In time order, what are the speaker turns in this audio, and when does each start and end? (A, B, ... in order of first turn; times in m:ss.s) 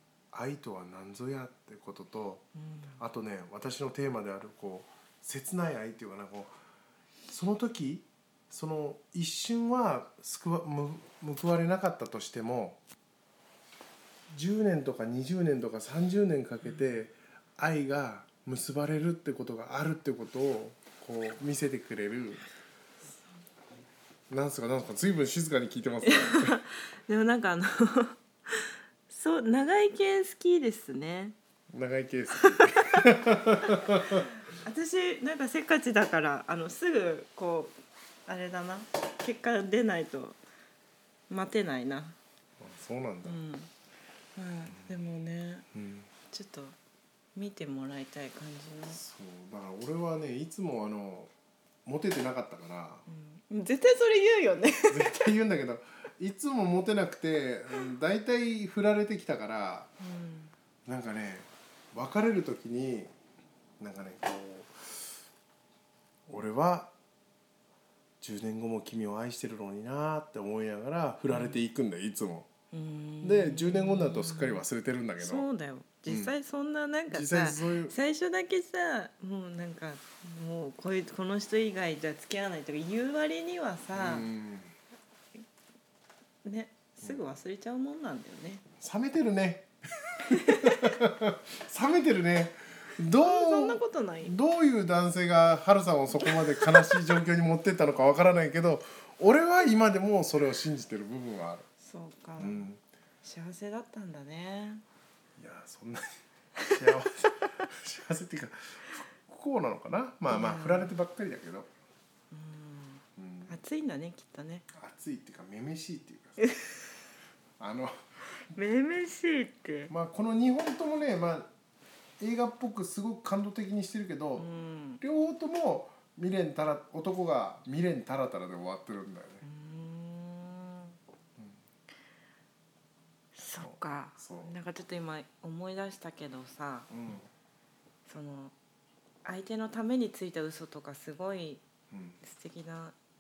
0:00.3-0:02.4 A
0:02.6-0:03.0 B
0:03.0-0:06.5 A
0:07.3-0:12.8 A
0:14.3-0:22.4 A
0:24.3-0:26.5 A
0:26.0-0:31.4 B
0:31.7-0:34.3 A
0:32.3-0:33.1 B
0:33.8-0:37.8 B
0:38.3-0:40.4 B
0:41.3-0:42.2 B
0:42.6-0:43.4 A
0:43.2-0:43.7 B
0:44.4-0:45.7 B
0:45.7-0:46.1 A
0:46.3-0:46.8 B
0:47.4-0:49.0 B
0:48.9-0:51.3 A
0:51.8-0:53.0 A
0:53.1-0:55.3 B
0:54.9-0:59.9 A
1:00.0-1:00.5 B
1:00.9-1:03.1 A
1:03.8-1:05.0 A
1:06.3-1:06.9 A
1:08.2-1:12.5 A
1:11.3-1:11.6 B
1:12.7-1:14.6 B
1:13.2-1:15.5 A
1:15.2-1:24.3 B
1:16.1-1:16.3 A
1:17.1-1:18.0 A
1:23.9-1:24.7 A
1:26.4-1:28.6 B
1:28.8-1:41.7 A
1:30.3-1:31.0 B
1:33.2-1:34.4 B
1:36.4-1:37.0 B
1:41.8-1:42.6 B
1:42.4-1:42.8 A
1:43.2-1:44.8 B
1:45.4-1:46.0 A
1:46.7-1:51.7 A
1:50.3-1:51.0 B
1:52.3-1:54.7 B
1:53.2-1:53.6 A
1:54.7-1:56.5 A
1:56.4-1:56.9 B
1:57.6-1:58.0 A
1:58.5-1:59.9 B
1:59.9-2:01.5 A
2:02.2-2:04.5 A
2:04.4-2:05.0 B
2:05.0-2:09.4 A
2:09.4-2:11.0 B
2:13.4-2:16.9 B
2:13.6-2:14.5 A
2:16.9-2:17.3 A
2:18.1-2:18.5 B
2:19.2-2:21.6 B
2:21.9-2:22.2 A
2:22.2-2:23.0 B